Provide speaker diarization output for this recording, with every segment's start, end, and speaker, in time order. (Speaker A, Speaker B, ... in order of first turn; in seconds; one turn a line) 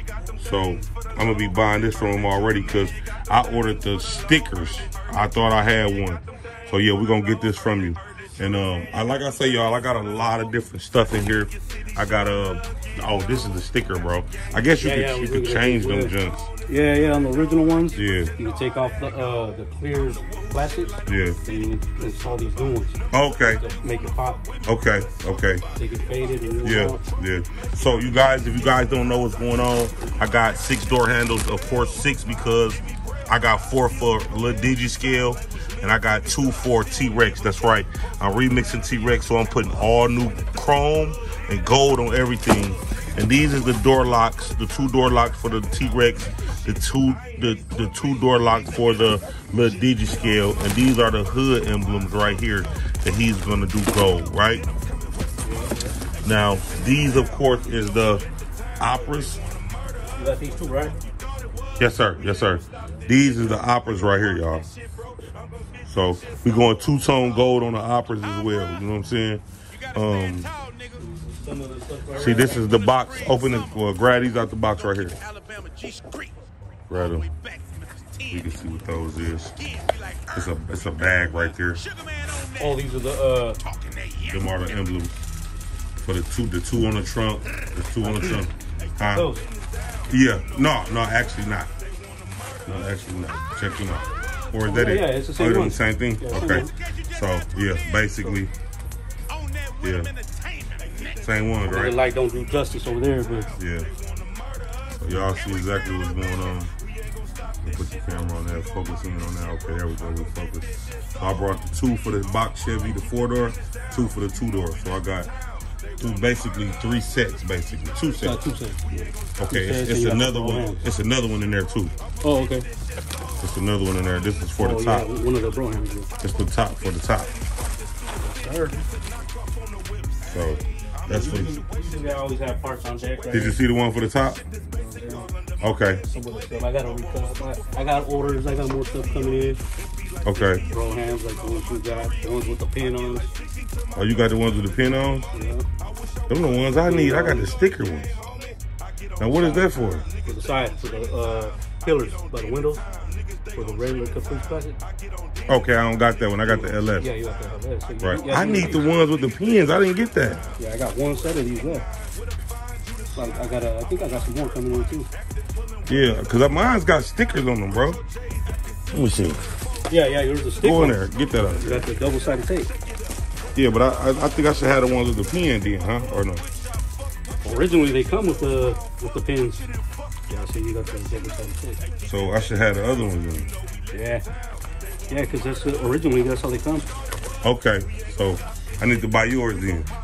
Speaker A: 0.4-16.5
Speaker B: 14.8-16.1
Speaker B: 16.7-24.5
Speaker A: 17.9-18.3
Speaker A: 21.1-21.4
Speaker A: 23.1-23.6
Speaker A: 24.6-25.6
Speaker B: 25.8-27.0
Speaker A: 26.6-54.6
Speaker B: 55.4-56.0
Speaker A: 56.2-58.2
Speaker A: 58.8-59.4
Speaker B: 60.2-61.0
Speaker A: 61.8-64.7
Speaker A: 65.9-70.5
Speaker B: 71.0-72.8
Speaker A: 72.2-75.2
Speaker C: 75.2-76.3
Speaker A: 76.9-77.3
Speaker C: 77.3-78.2
Speaker A: 78.3-79.6
Speaker C: 79.8-80.2
Speaker A: 80.3-81.8
Speaker C: 81.9-82.5
Speaker B: 82.6-83.6
Speaker C: 83.9-84.2
Speaker A: 84.3-85.2
Speaker A: 86.0-89.3
Speaker B: 88.0-88.5
Speaker B: 89.1-89.5
Speaker A: 90.1-91.7
Speaker A: 92.7-98.5
Speaker B: 94.7-96.7
Speaker C: 99.4-101.1
Speaker A: 99.8-100.1
Speaker A: 101.2-102.0
Speaker B: 101.7-103.5
Speaker A: 103.6-103.9
Speaker A: 105.0-106.7
Speaker A: 107.6-115.3
Speaker A: 116.0-118.5
Speaker B: 118.2-118.9
Speaker A: 119.3-121.9
Speaker B: 119.5-120.8
Speaker B: 122.2-122.7
Speaker A: 123.4-125.1
Speaker B: 124.6-126.1
Speaker A: 126.2-127.3
Speaker B: 128.2-128.9
Speaker A: 130.2-131.6
Speaker B: 131.1-133.6
Speaker A: 133.3-134.4
Speaker B: 134.7-135.3
Speaker A: 135.6-136.0
Speaker B: 136.1-139.6
Speaker A: 140.2-140.6
Speaker B: 140.4-143.3
Speaker A: 143.9-145.3
Speaker B: 145.3-145.7
Speaker A: 146.3-148.2
Speaker B: 146.8-147.6
Speaker A: 149.2-150.1
Speaker B: 149.3-149.7
Speaker B: 150.2-152.9
Speaker B: 153.5-154.8
Speaker A: 155.5-157.1
Speaker B: 156.4-158.9
Speaker A: 158.0-160.4
Speaker B: 160.6-161.9
Speaker B: 163.1-165.1
Speaker A: 165.9-168.0
Speaker A: 168.9-169.5
Speaker B: 169.9-171.0
Speaker A: 170.6-171.9
Speaker B: 171.5-172.7
Speaker A: 173.6-176.4
Speaker B: 177.4-179.7
Speaker B: 180.3-181.8
Speaker A: 182.0-183.5
Speaker B: 183.9-184.2
Speaker B: 185.1-186.9
Speaker A: 187.4-189.9